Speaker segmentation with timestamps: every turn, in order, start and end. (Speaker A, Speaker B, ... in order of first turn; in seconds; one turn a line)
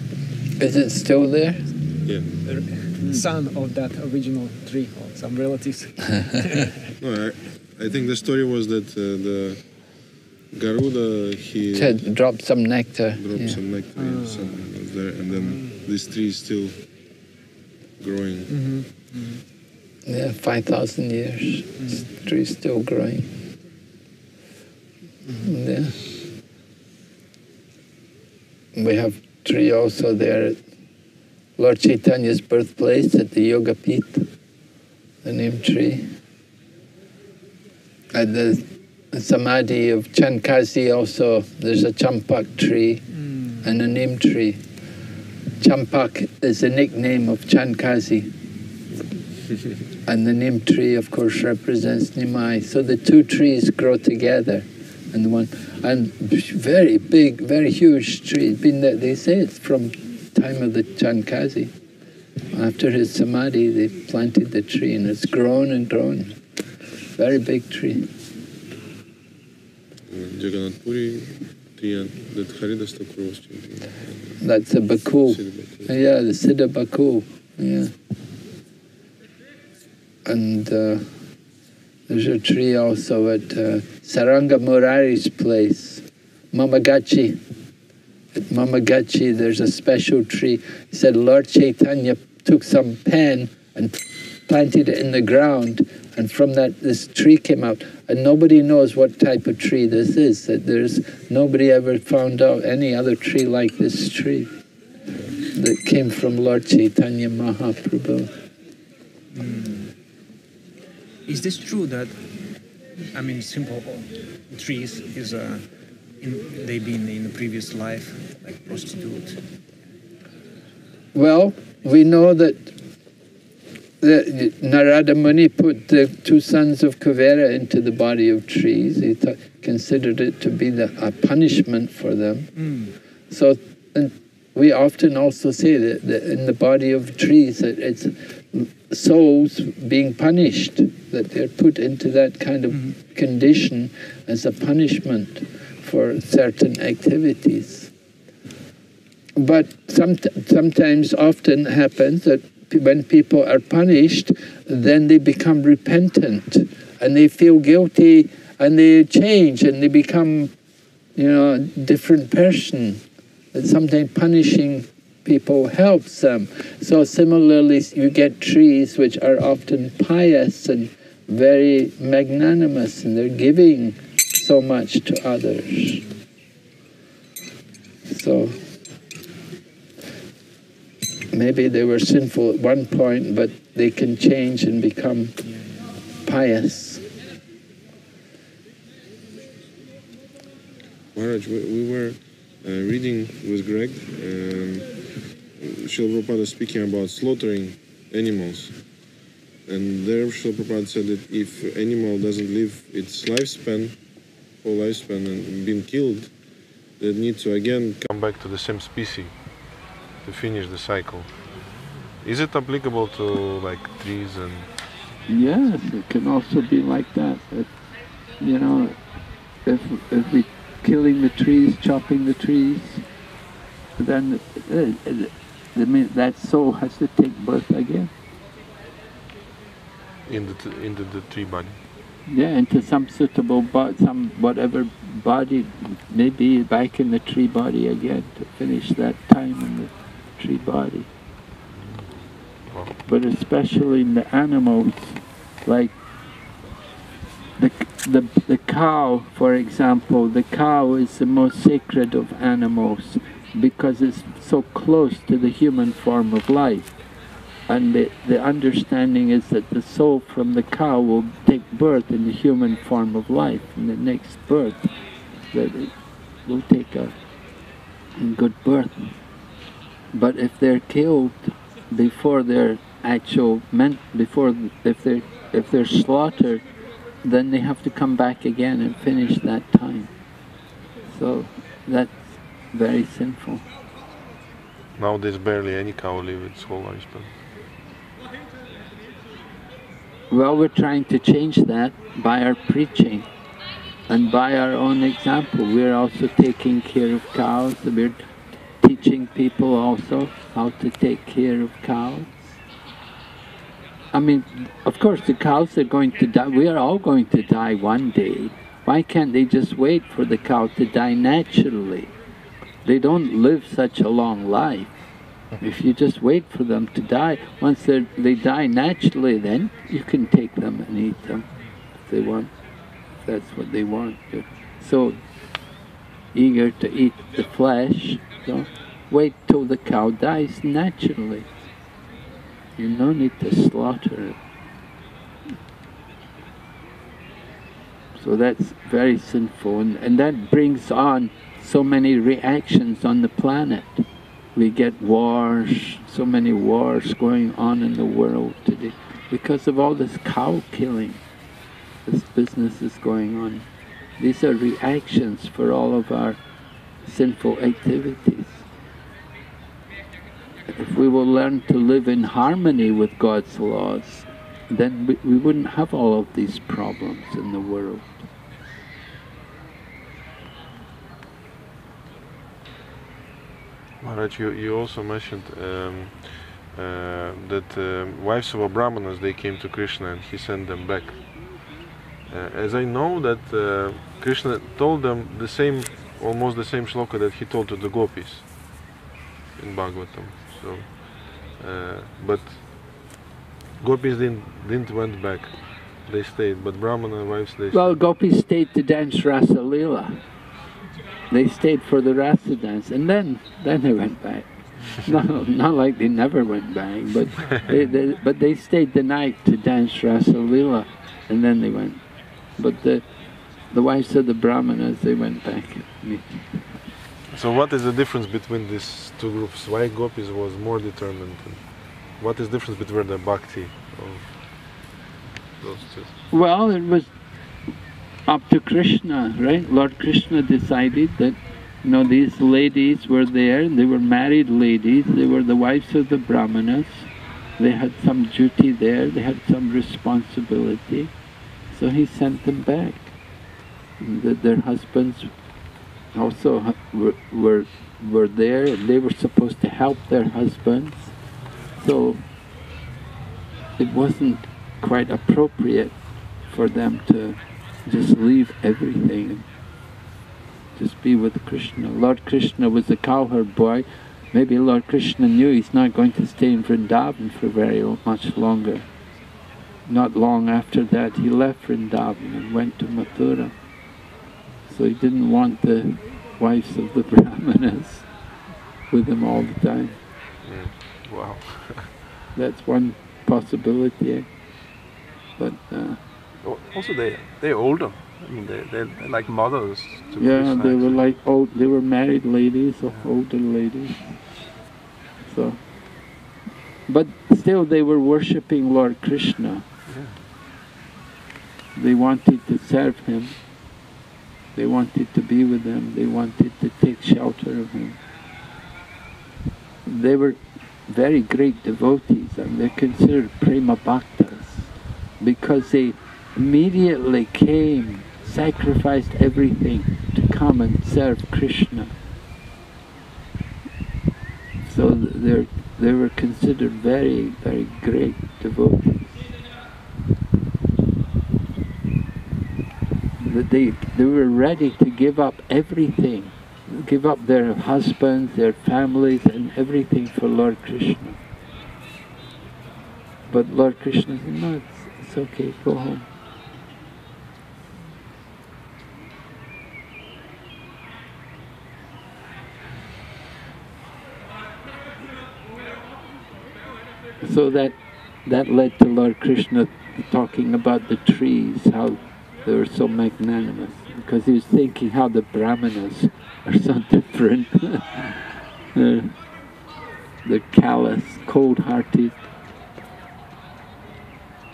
Speaker A: 0.6-1.6
Speaker B: 2.4-6.9
Speaker C: 7.0-9.8
Speaker C: 10.5-12.1
Speaker A: 11.7-13.6
Speaker C: 13.2-16.8
Speaker B: 14.0-14.5
Speaker C: 18.0-18.5
Speaker B: 18.5-19.4
Speaker A: 20.1-23.3
Speaker A: 25.4-26.0
Speaker A: 28.7-30.6
Speaker A: 31.6-34.3
Speaker A: 35.2-36.1
Speaker A: 38.1-43.1
Speaker A: 43.6-44.6
Speaker A: 45.6-48.3
Speaker A: 50.1-61.7
Speaker A: 62.5-66.4
Speaker A: 67.2-68.1
Speaker C: 70.1-74.4
Speaker A: 74.4-77.9
Speaker C: 75.4-75.9
Speaker A: 80.2-81.1
Speaker A: 82.1-87.4
Speaker A: 88.3-104.5
Speaker A: 105.5-108.3
Speaker B: 109.3-109.9
Speaker B: 111.3-112.2
Speaker B: 113.1-115.6
Speaker B: 116.2-119.4
Speaker A: 121.1-122.7
Speaker A: 124.0-132.5
Speaker B: 132.6-132.9
Speaker A: 133.3-147.9
Speaker A: 149.4-160.5
Speaker A: 161.2-163.0
Speaker A: 163.5-176.0
Speaker A: 178.1-178.6
Speaker A: 181.3-185.4
Speaker A: 186.2-187.0
Speaker C: 191.1-194.9
Speaker C: 195.6-198.8
Speaker C: 199.7-204.0
Speaker C: 204.6-206.3
Speaker C: 207.0-209.4
Speaker C: 210.2-211.4
Speaker C: 212.2-214.7
Speaker A: 215.3-217.7
Speaker A: 218.4-219.0
Speaker A: 219.7-223.0
Speaker A: 224.0-228.1
Speaker C: 230.3-231.8
Speaker A: 232.3-241.1
Speaker C: 241.8-242.1
Speaker C: 242.7-243.0
Speaker A: 243.0-245.9
Speaker A: 247.6-256.9
Speaker A: 257.7-264.9
Speaker A: 265.5-265.9
Speaker A: 266.4-267.1
Speaker A: 268.2-269.1
Speaker A: 270.1-276.6
Speaker A: 277.2-280.1
Speaker A: 281.1-283.6
Speaker C: 285.0-287.3
Speaker A: 290.3-293.3
Speaker A: 294.1-298.3
Speaker A: 298.8-302.3
Speaker A: 304.1-312.1
Speaker A: 312.9-315.0
Speaker A: 315.6-321.5
Speaker A: 322.0-322.5
Speaker A: 323.2-325.2
Speaker A: 326.3-331.5
Speaker A: 332.8-334.4
Speaker A: 338.2-351.2
Speaker A: 352.1-353.7
Speaker A: 354.2-356.4
Speaker A: 357.1-358.6
Speaker A: 360.7-368.2
Speaker C: 374.0-381.7
Speaker C: 382.3-388.4
Speaker C: 389.6-392.7
Speaker C: 393.8-397.9
Speaker A: 397.7-400.2
Speaker A: 401.3-412.0
Speaker A: 412.6-413.1
Speaker A: 413.7-416.5
Speaker C: 417.3-424.4
Speaker C: 425.6-426.1
Speaker A: 426.3-427.1
Speaker A: 428.3-441.1
Speaker A: 441.7-443.1
Speaker A: 444.0-445.3
Speaker A: 446.1-451.1
Speaker A: 451.8-452.2
Speaker A: 453.8-459.5
Speaker A: 460.8-468.9
Speaker A: 469.9-473.5
Speaker A: 474.7-478.1
Speaker A: 478.9-480.0
Speaker C: 480.4-481.9
Speaker A: 482.4-484.3
Speaker A: 485.4-486.0
Speaker D: 486.4-491.0
Speaker A: 490.2-494.2
Speaker A: 495.3-495.6
Speaker A: 496.9-499.6
Speaker D: 499.9-500.1
Speaker A: 501.8-503.4
Speaker A: 504.6-508.0
Speaker A: 509.9-521.9
Speaker A: 524.7-529.2
Speaker A: 533.2-541.2
Speaker A: 543.3-546.1
Speaker A: 557.2-569.1
Speaker A: 570.2-572.2